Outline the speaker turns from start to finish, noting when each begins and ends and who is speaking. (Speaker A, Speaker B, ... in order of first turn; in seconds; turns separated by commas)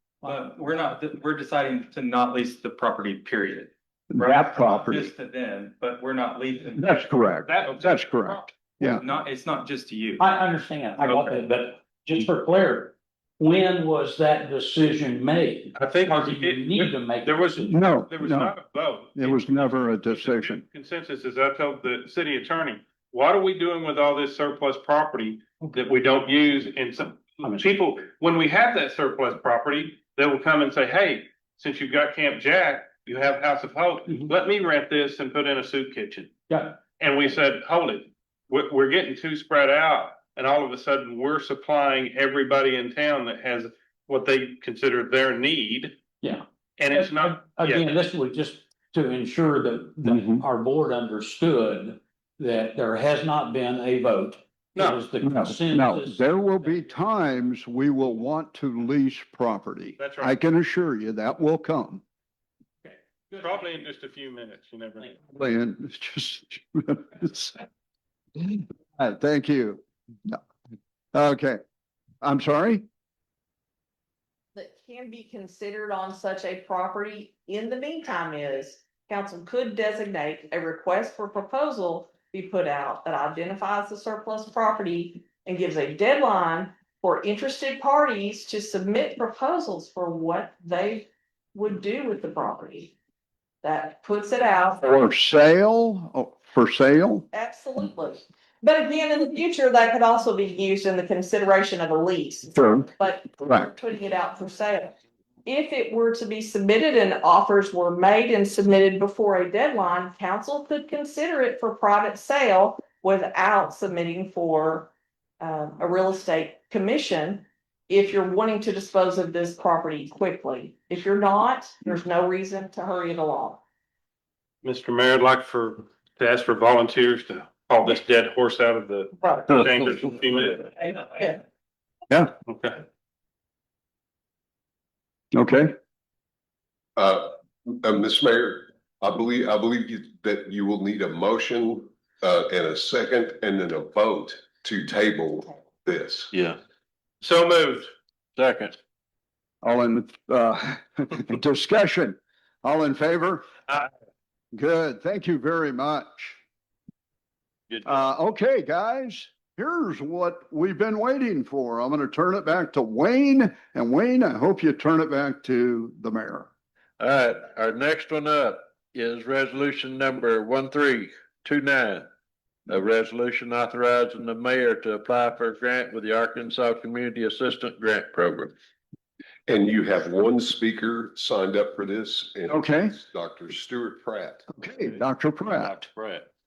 Speaker A: 0.2-7.0, Speaker B: 4.1-5.1, Speaker B: 6.7-9.0, Speaker C: 7.5-8.5, Speaker A: 8.9-10.2, Speaker D: 10.2-17.7, Speaker C: 11.1-11.3, Speaker C: 15.8-36.3, Speaker B: 17.6-18.6, Speaker B: 19.1-20.6, Speaker D: 27.4-27.7, Speaker D: 36.5-36.8, Speaker C: 37.0-46.0, Speaker D: 46.2-56.8, Speaker C: 46.8-47.9, Speaker B: 50.0-50.4, Speaker C: 54.8-55.0, Speaker B: 55.2-62.0, Speaker C: 60.0-60.4, Speaker D: 62.8-63.8, Speaker C: 63.3-65.1, Speaker B: 65.3-67.5, Speaker B: 68.4-70.4, Speaker B: 71.1-71.6, Speaker B: 72.2-72.8, Speaker E: 74.5-92.9, Speaker E: 93.6-94.8, Speaker B: 94.8-97.3, Speaker E: 97.3-104.9, Speaker B: 102.5-103.7, Speaker E: 105.5-123.6, Speaker C: 124.6-130.9, Speaker F: 129.5-130.1, Speaker C: 132.5-132.8, Speaker B: 135.3-135.7, Speaker G: 136.9-146.3, Speaker F: 146.3-146.6, Speaker C: 147.2-147.9, Speaker F: 148.3-148.8, Speaker B: 149.6-153.5, Speaker B: 154.5-156.4, Speaker F: 157.7-158.1, Speaker B: 157.8-166.5, Speaker F: 167.0-172.1, Speaker F: 172.7-178.5, Speaker G: 179.4-184.4, Speaker B: 182.5-182.9, Speaker B: 184.5-185.9, Speaker F: 184.9-186.3